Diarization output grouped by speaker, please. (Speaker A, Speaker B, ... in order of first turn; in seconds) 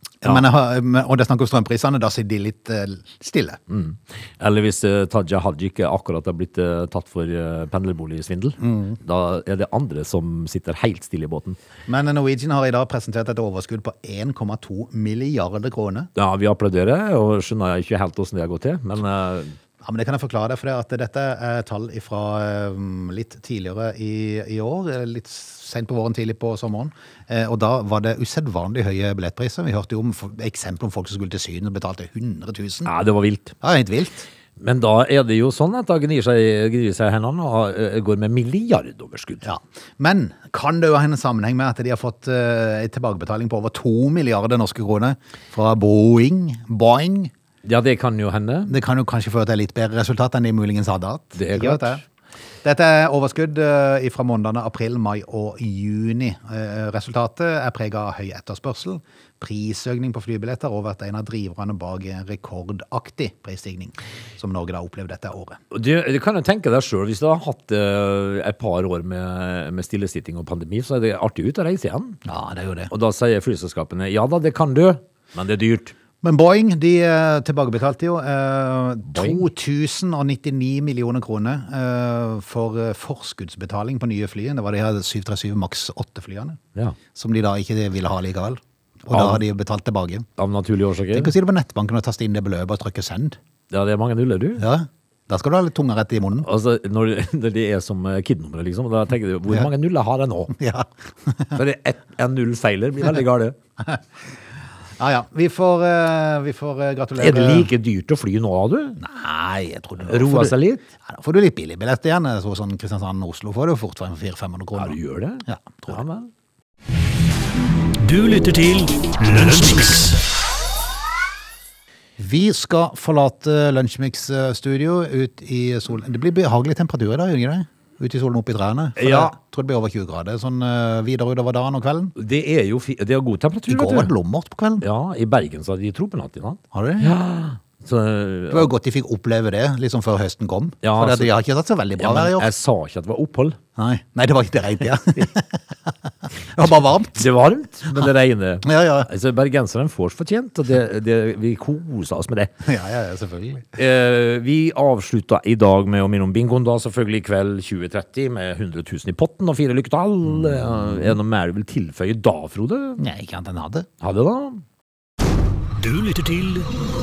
Speaker A: 0.2-3.6, 8.6-9.0, 11.9-16.1, 19.8-32.9, 33.6-34.3, 39.4-47.3, 48.7-52.0, 52.6-65.6, 72.3-72.9, 76.2-86.6, 87.1-90.3, 91.1-93.4, 94.6-96.5, 100.5-101.6, 105.0-107.7, 109.0-116.0, 122.2-132.1, 133.7-134.8, 136.7-137.1, 138.5-142.5, 143.8-145.6, 146.5-147.3, 148.6-149.1, 152.7-153.7, 160.3-161.2, 163.0-163.9
Speaker B: 3.7-11.6, 16.2-19.6, 32.9-33.6, 34.6-39.4, 47.6-48.7, 51.4-52.0, 65.7-72.2, 72.9-75.9, 79.1-79.4, 89.1-89.4, 90.4-91.3, 93.7-94.6, 96.4-100.5, 101.5-103.6, 107.2-109.0, 110.1-110.8, 114.8-116.3, 129.0-129.3, 132.2-134.1, 134.8-138.7, 140.8-141.3, 142.0-143.6, 147.2-152.5, 153.8-163.0, 164.0-164.6
Speaker C: 118.0-120.2, 165.8-166.7